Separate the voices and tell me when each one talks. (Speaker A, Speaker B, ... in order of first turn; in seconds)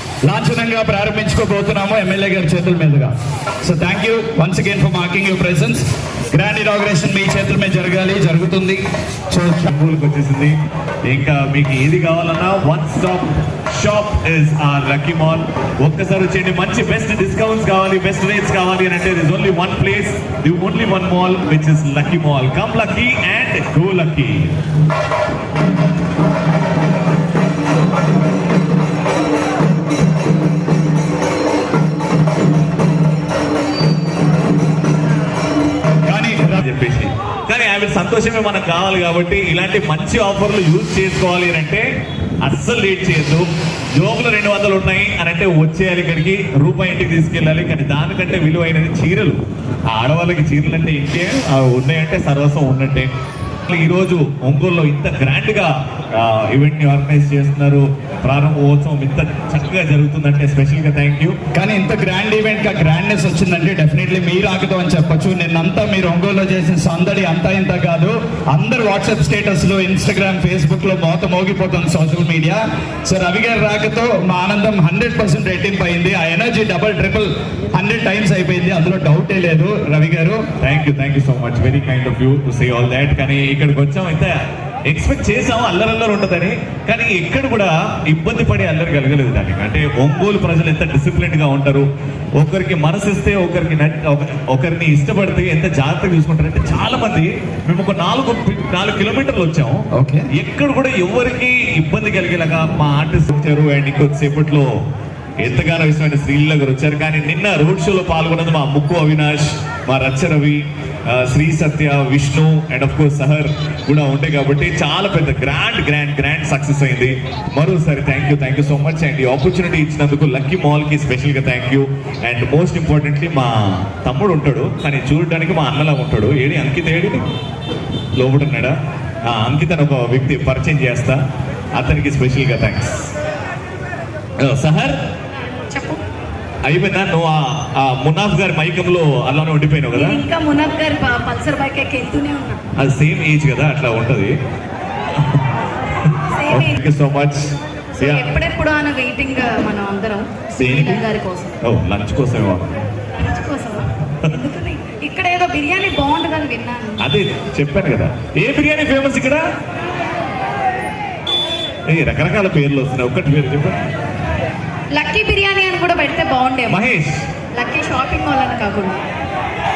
Speaker A: 0.2-3.1, 3.6-5.8, 6.3-9.7, 36.1-36.6, 61.5-80.4, 99.9-100.3
Speaker B: 9.7-10.6, 11.1-24.5, 36.5-41.9, 42.4-53.1, 53.6-61.4, 80.6-104.7, 105.4-127.2, 128.2-128.7, 129.3-131.2, 131.7-133.1, 134.4-135.0, 136.6-140.2, 142.8-144.3, 145.1-145.4, 146.5-148.3, 150.6-151.0, 151.6-152.9, 157.0-159.4, 161.9-163.8, 166.7-167.2
Speaker C: 135.7-136.0, 139.9-142.6, 146.3-146.8, 148.0-151.5, 153.2-157.1, 164.9-166.8, 167.5-169.0